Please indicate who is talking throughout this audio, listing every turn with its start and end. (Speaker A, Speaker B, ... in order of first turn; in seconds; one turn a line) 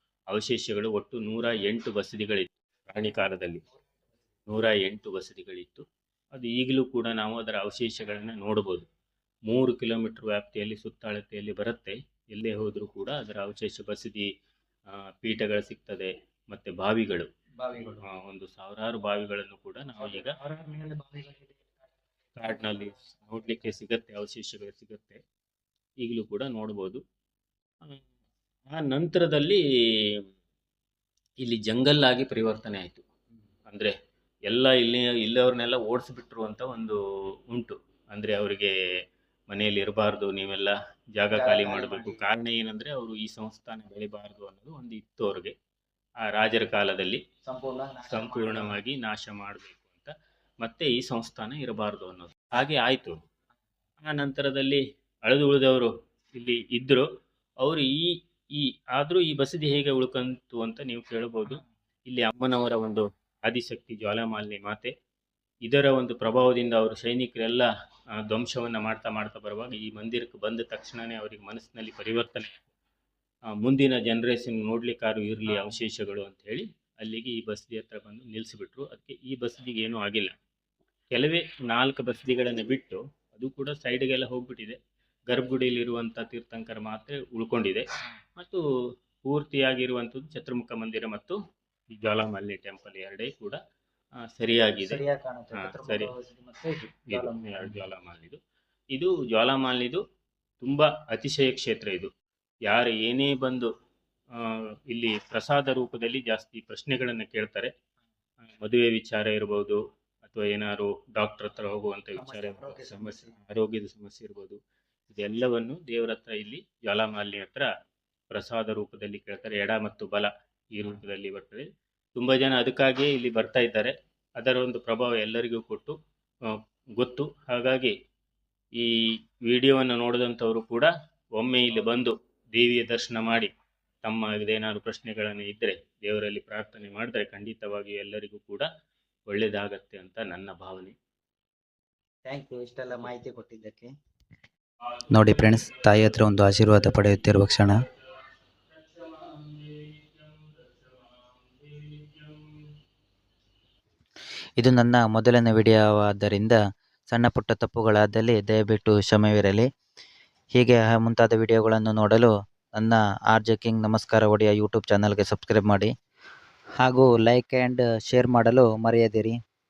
Speaker A: 0.3-3.6
Speaker A: 4.5-8.9
Speaker A: 9.5-14.3
Speaker A: 15.2-17.3
Speaker B: 17.6-18.0
Speaker A: 17.9-20.4
Speaker B: 20.0-21.7
Speaker A: 22.4-25.2
Speaker A: 26.0-27.0
Speaker A: 28.7-29.6
Speaker A: 31.4-33.0
Speaker A: 33.7-33.9
Speaker A: 34.5-37.0
Speaker A: 37.5-38.7
Speaker A: 39.5-45.5
Speaker B: 41.3-42.2
Speaker A: 46.2-47.2
Speaker B: 47.5-48.7
Speaker A: 48.1-53.1
Speaker A: 54.0-57.1
Speaker A: 57.6-64.9
Speaker A: 65.7-67.7
Speaker A: 68.2-72.6
Speaker A: 73.6-80.3
Speaker A: 81.1-84.8
Speaker A: 85.3-87.9
Speaker A: 89.2-91.4
Speaker A: 92.0-93.6
Speaker A: 94.4-95.0
Speaker B: 94.8-97.6
Speaker A: 95.5-96.1
Speaker A: 97.1-98.4
Speaker A: 98.9-100.0
Speaker A: 100.6-102.1
Speaker A: 102.7-103.7
Speaker A: 104.4-107.7
Speaker A: 108.6-114.6
Speaker B: 112.2-113.3
Speaker A: 115.1-117.7
Speaker A: 118.3-126.0
Speaker A: 126.5-127.9
Speaker A: 129.5-133.5
Speaker A: 134.0-138.7
Speaker A: 139.3-140.9
Speaker B: 142.2-143.9
Speaker A: 144.9-147.7
Speaker C: 145.1-147.8
Speaker A: 148.7-152.5
Speaker C: 154.6-156.6
Speaker C: 157.1-159.7
Speaker C: 160.6-165.9
Speaker C: 166.8-169.4